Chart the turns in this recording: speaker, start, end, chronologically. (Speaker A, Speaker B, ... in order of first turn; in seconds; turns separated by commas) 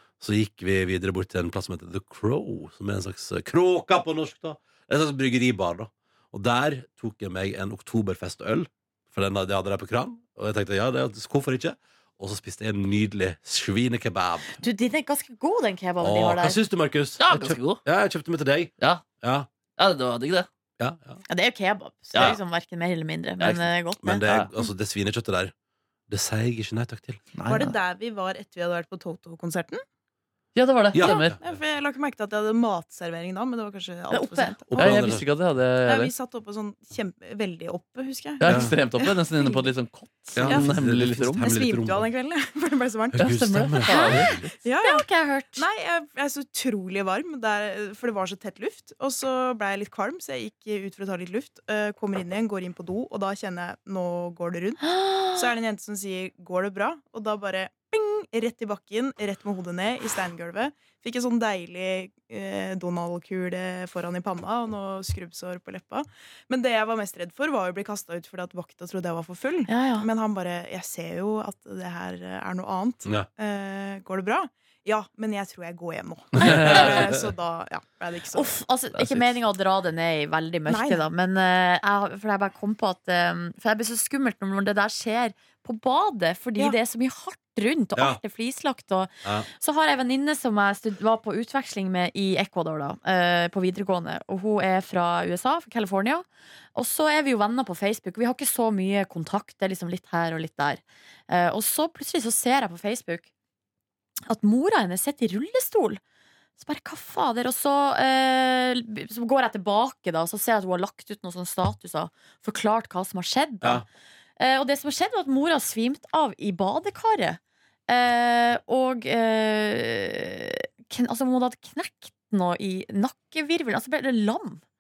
Speaker A: 0.2-14.6, Speaker B: 14.5-16.6, Speaker A: 16.0-19.5, Speaker C: 17.2-17.8, Speaker C: 18.8-19.1, Speaker C: 19.8-20.5, Speaker A: 20.8-21.2, Speaker B: 21.3-24.2, Speaker C: 22.1-22.4, Speaker C: 23.4-24.5, Speaker A: 24.0-25.5, Speaker A: 26.1-27.3, Speaker C: 27.4-27.8, Speaker D: 27.5-29.8, Speaker C: 30.6-31.3, Speaker A: 30.9-31.4, Speaker D: 31.0-35.1, Speaker B: 34.1-34.6, Speaker A: 34.7-35.3, Speaker C: 34.8-36.1, Speaker D: 35.8-39.7, Speaker C: 38.4-41.5, Speaker A: 38.5-38.7, Speaker A: 40.4-42.1, Speaker D: 40.4-40.8, Speaker D: 41.3-43.5, Speaker A: 43.1-44.0, Speaker C: 43.2-44.5, Speaker B: 43.8-44.3, Speaker D: 44.1-45.0, Speaker B: 44.8-45.6, Speaker D: 45.6-54.8, Speaker B: 54.8-55.5, Speaker D: 55.3-78.5, Speaker B: 69.7-70.1, Speaker B: 76.4-77.1, Speaker C: 76.5-77.1, Speaker B: 78.3-103.3, Speaker C: 78.9-79.3, Speaker D: 80.7-81.0, Speaker B: 104.3-106.0, Speaker B: 106.6-113.8, Speaker B: 114.4-124.6